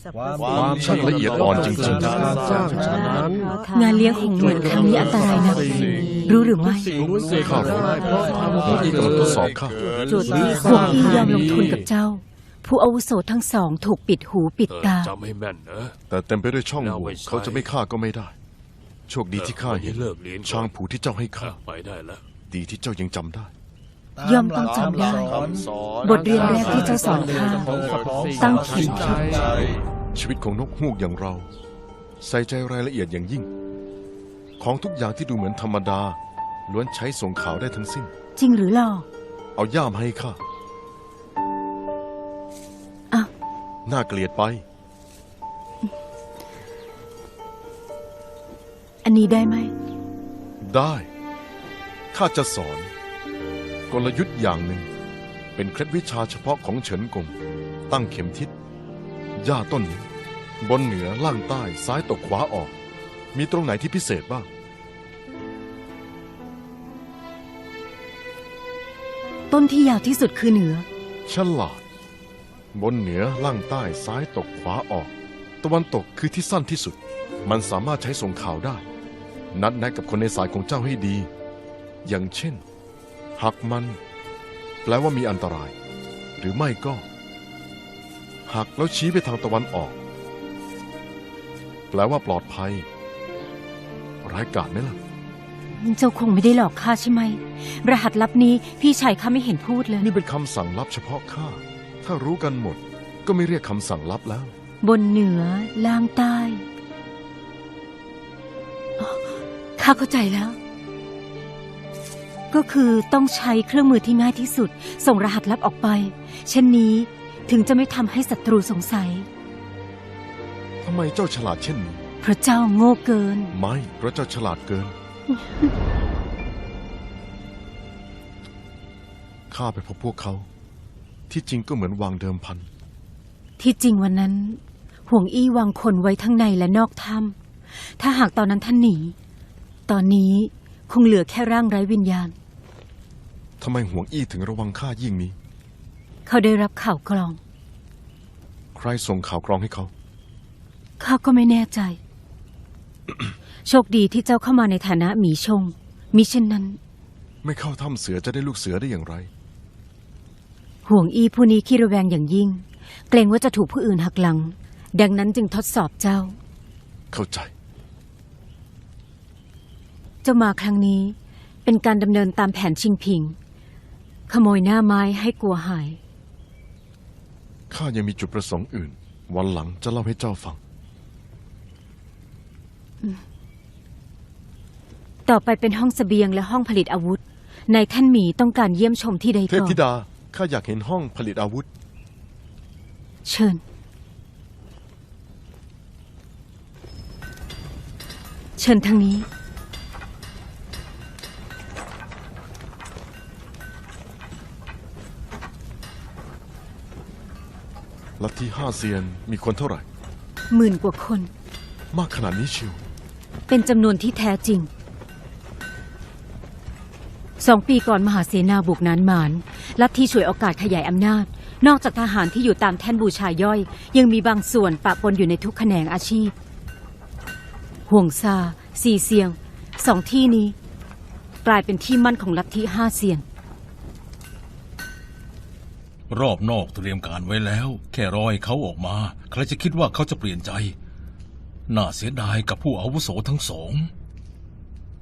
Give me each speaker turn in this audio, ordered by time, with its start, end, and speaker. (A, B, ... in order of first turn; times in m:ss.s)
0:00.7-0:02.4 A
0:01.8-0:03.5 B
0:03.7-0:05.7 C
0:06.2-0:06.9 C
0:06.9-0:08.8 B
0:07.4-0:07.9 A
0:08.6-0:09.8 A
0:10.1-0:15.1 C
0:11.2-0:11.8 D
0:14.7-0:15.9 D
0:16.1-0:18.3 A
0:16.8-0:17.7 D
0:19.1-0:21.6 A
0:19.4-0:20.7 D
0:21.4-0:22.2 D
0:22.5-0:23.5 A
0:24.2-0:25.4 C
0:25.2-0:26.2 A
0:26.0-0:27.8 C
0:28.3-0:29.4 C
0:28.4-0:29.2 D
0:30.1-0:31.5 A
0:32.2-0:33.5 A
0:34.6-0:38.1 A
0:38.4-0:39.0 C
0:39.6-0:40.4 A
0:43.8-0:44.6 A
0:49.0-0:49.7 C
0:50.6-0:51.1 A
0:52.1-0:52.9 A
0:53.9-0:54.9 A
0:55.5-0:57.3 A
0:57.9-0:58.5 A
0:59.4-1:00.1 A
1:00.6-1:02.7 A
1:03.3-1:04.5 A
1:09.5-1:10.9 C
1:11.2-1:11.8 A
1:12.7-1:18.8 A
1:19.5-1:21.3 A
1:22.0-1:22.6 A
1:23.4-1:24.0 A
1:24.8-1:25.7 A
1:26.4-1:27.0 A
1:28.4-1:30.0 A
1:31.9-1:32.9 A
1:34.2-1:35.0 A
1:35.7-1:40.1 C
1:40.0-1:44.5 A
1:44.8-1:46.6 C
1:49.0-1:50.6 C
1:52.5-1:59.3 C
2:00.8-2:02.0 A
2:02.2-2:03.5 C
2:03.5-2:05.0 A
2:09.5-2:10.5 A
2:11.3-2:12.7 A
2:13.6-2:17.4 C
2:18.0-2:19.1 C
2:19.9-2:22.3 C
2:23.6-2:25.4 A
2:26.2-2:27.4 C
2:28.7-2:29.9 A
2:31.0-2:32.0 C
2:33.6-2:36.8 C
2:37.4-2:39.3 A
2:40.8-2:46.4 C
2:47.1-2:47.5 A
2:50.2-2:53.4 C
2:54.3-2:56.0 C
2:57.7-3:00.6 A
3:05.2-3:09.8 C
3:09.5-3:11.7 A
3:13.2-3:13.6 C
3:18.6-3:19.3 C
3:28.2-3:29.8 A
3:30.5-3:31.3 C
3:31.9-3:32.8 A
3:33.5-3:34.7 C
3:37.4-3:46.3 C
3:47.9-3:50.5 C
3:51.4-3:53.2 C
3:56.1-4:00.7 E
4:01.7-4:03.9 E